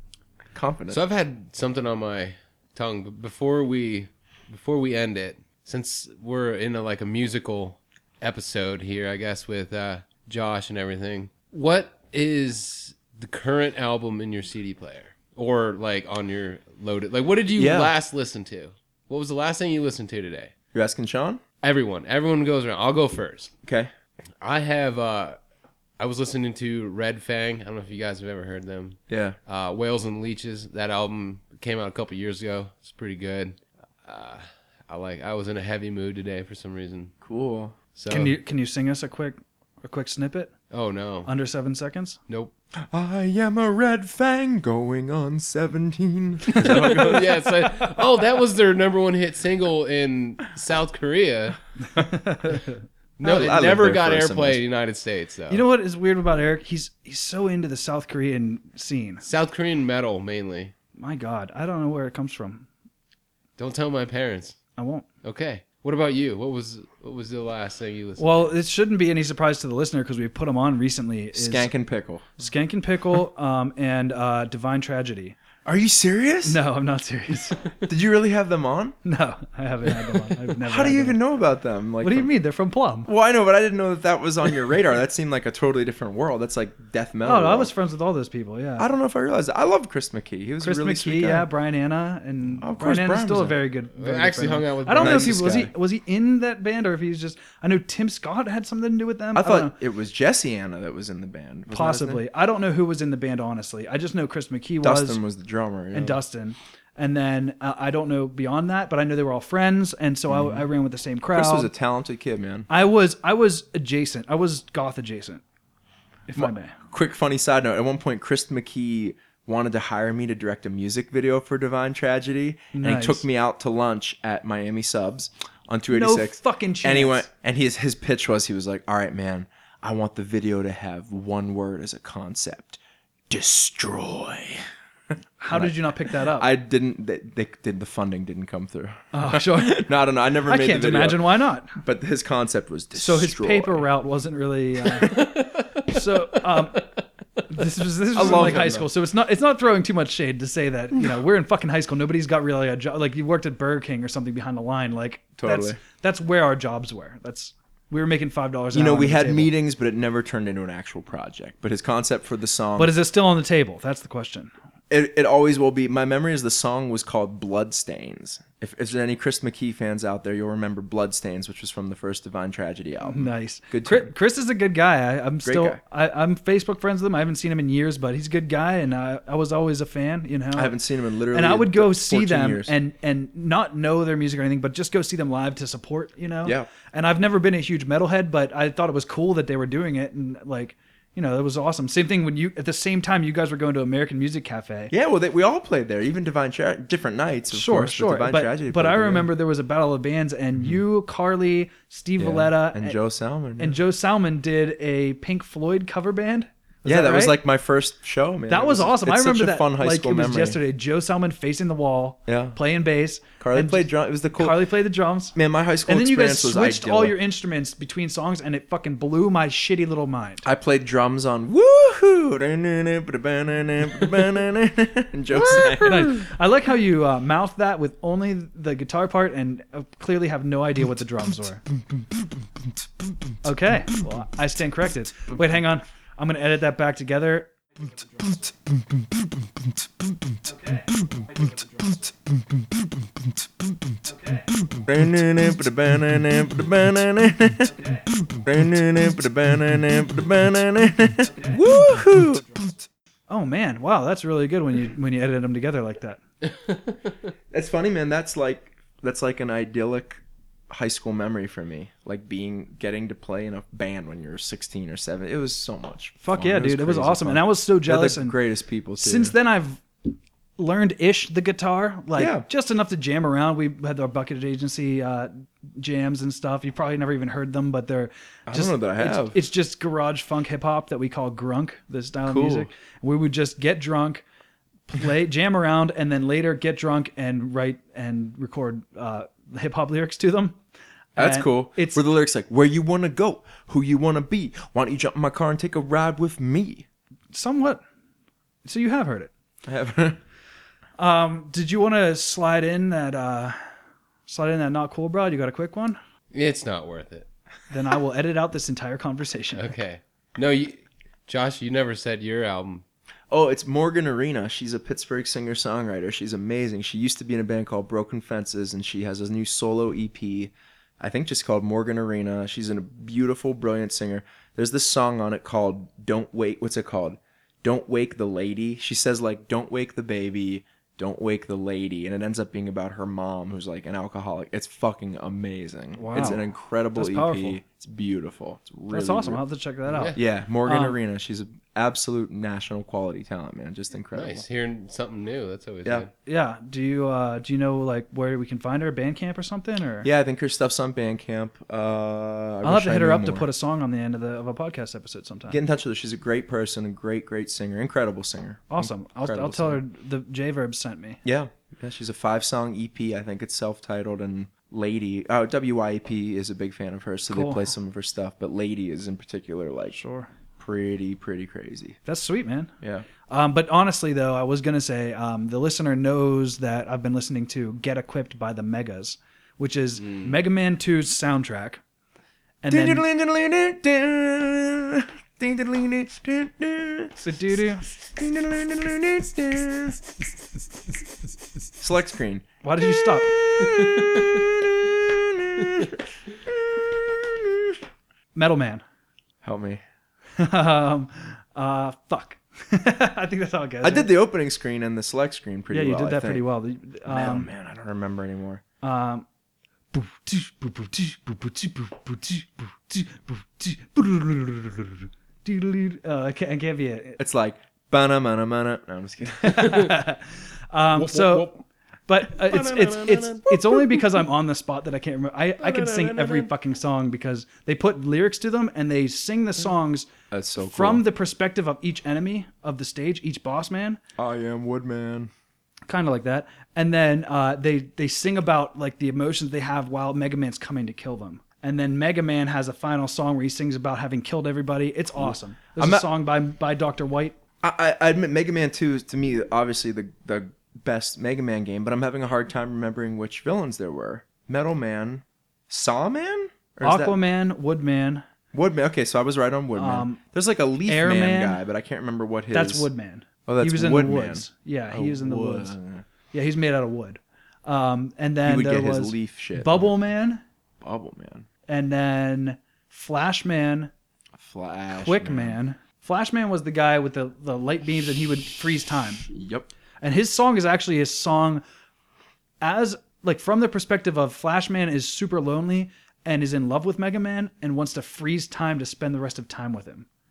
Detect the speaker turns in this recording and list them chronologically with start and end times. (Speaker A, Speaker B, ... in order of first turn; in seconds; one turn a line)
Speaker A: 0.5-1.0
Speaker B: 0.9-20.5
Speaker A: 17.6-17.9
Speaker A: 20.7-21.4
Speaker B: 21.6-23.5
Speaker A: 23.6-23.9
Speaker B: 24.4-25.4
Speaker B: 26.0-37.1
Speaker A: 29.1-29.4
Speaker A: 37.2-37.8
Speaker B: 38.0-38.4
Speaker C: 38.1-40.5
Speaker B: 40.7-41.3
Speaker C: 41.3-42.2
Speaker A: 42.9-47.3
Speaker B: 46.5-51.6
Speaker C: 52.0-52.7
Speaker B: 53.2-55.6
Speaker A: 53.2-54.6
Speaker C: 55.5-59.2
Speaker B: 59.2-60.7
Speaker C: 61.0-62.7
Speaker B: 63.6-64.6
Speaker C: 64.8-65.1
Speaker B: 65.2-68.5
Speaker C: 68.2-71.7
Speaker A: 71.3-72.3
Speaker C: 72.4-75.4
Speaker A: 75.7-76.6
Speaker C: 76.4-77.6
Speaker A: 77.9-79.0
Speaker C: 79.0-81.2
Speaker A: 80.6-82.3
Speaker C: 82.0-83.1
Speaker A: 83.1-87.7
Speaker C: 87.2-88.9
Speaker A: 88.8-91.5
Speaker C: 90.6-99.8
Speaker A: 92.6-93.6
Speaker B: 94.0-95.5
Speaker A: 95.0-95.7
Speaker A: 99.3-102.2
Speaker C: 101.7-105.2
Speaker A: 104.8-106.2
Speaker C: 105.9-111.7
Speaker A: 110.3-110.7
Speaker A: 111.3-112.7
Speaker C: 112.7-115.4
Speaker C: 116.3-116.8
Speaker A: 116.3-132.8
Speaker C: 122.7-123.3
Speaker C: 125.9-127.3
Speaker A: 133.3-134.6
Speaker C: 135.4-136.5
Speaker A: 135.5-143.8
Speaker C: 139.1-139.9
Speaker C: 140.5-141.7
Speaker C: 142.9-145.3
Speaker B: 145.1-145.9
Speaker C: 145.9-146.9
Speaker B: 146.6-146.8
Speaker C: 147.5-159.5
Speaker A: 148.1-148.9
Speaker A: 155.4-155.8
Speaker A: 158.7-162.9
Speaker C: 162.8-164.5
Speaker A: 164.9-174.1
Speaker C: 173.0-180.8
Speaker A: 175.4-175.8
Speaker A: 180.6-182.7
Speaker C: 181.3-194.9
Speaker A: 186.4-186.7
Speaker A: 194.9-199.3
Speaker C: 197.5-203.0
Speaker A: 202.2-203.8
Speaker C: 203.6-207.4
Speaker A: 206.8-210.6
Speaker C: 208.5-220.5
Speaker A: 212.3-212.6
Speaker A: 213.4-214.7
Speaker A: 215.3-217.2
Speaker A: 220.4-226.2
Speaker C: 225.8-231.6
Speaker C: 233.4-237.5
Speaker A: 238.2-241.9
Speaker C: 240.4-242.0
Speaker C: 244.1-244.6
Speaker A: 244.6-252.9
Speaker C: 247.7-248.1
Speaker C: 251.3-252.0
Speaker C: 253.3-256.2
Speaker B: 256.5-256.9
Speaker A: 257.5-269.4
Speaker C: 266.2-268.4
Speaker C: 269.0-284.2
Speaker A: 272.1-272.5
Speaker A: 278.5-279.4
Speaker A: 282.3-282.7
Speaker C: 284.9-290.6
Speaker C: 291.2-292.0
Speaker A: 291.2-296.9
Speaker C: 297.3-297.8
Speaker C: 298.6-299.3
Speaker A: 299.6-300.2
Speaker C: 301.0-303.6
Speaker C: 304.3-306.0
Speaker B: 306.3-307.3
Speaker C: 307.7-309.7
Speaker B: 309.6-312.8
Speaker A: 313.3-339.4
Speaker C: 335.9-337.6
Speaker C: 338.9-341.0
Speaker B: 339.9-340.2
Speaker A: 340.1-344.4
Speaker B: 344.1-346.1
Speaker C: 346.3-350.1
Speaker A: 350.0-353.5
Speaker C: 352.6-355.6
Speaker A: 355.5-359.8
Speaker C: 358.7-361.2
Speaker A: 361.2-370.0
Speaker C: 367.3-367.7
Speaker C: 369.9-370.3
Speaker A: 370.6-372.0
Speaker C: 372.1-372.7
Speaker A: 372.8-373.1
Speaker C: 373.3-381.8
Speaker B: 380.0-380.3
Speaker C: 382.6-383.1
Speaker A: 382.7-387.1
Speaker C: 387.2-387.9
Speaker A: 388.0-390.4
Speaker A: 391.8-392.5
Speaker C: 392.6-393.4
Speaker A: 393.1-397.8
Speaker C: 398.4-398.8
Speaker A: 399.4-399.8
Speaker C: 400.4-404.1
Speaker A: 403.8-406.4
Speaker C: 405.7-407.5
Speaker A: 407.1-408.6
Speaker C: 408.8-409.3
Speaker C: 409.9-417.2
Speaker A: 417.2-419.9
Speaker C: 419.4-421.5
Speaker B: 421.0-421.5
Speaker C: 422.1-430.1
Speaker B: 422.4-423.4
Speaker B: 425.6-426.5
Speaker A: 430.3-431.0
Speaker C: 430.6-434.0
Speaker A: 434.2-435.3
Speaker C: 435.9-447.4
Speaker A: 445.2-446.1
Speaker A: 447.6-457.2
Speaker C: 456.8-458.2
Speaker A: 458.5-462.9
Speaker C: 459.8-460.2
Speaker C: 460.9-461.6
Speaker C: 462.5-465.8
Speaker A: 463.5-466.1
Speaker C: 466.3-470.4
Speaker A: 468.4-469.9
Speaker A: 470.8-471.5
Speaker C: 471.7-473.9
Speaker A: 474.4-475.6
Speaker C: 474.9-479.3
Speaker A: 479.3-479.7
Speaker C: 480.0-481.6
Speaker C: 482.6-490.1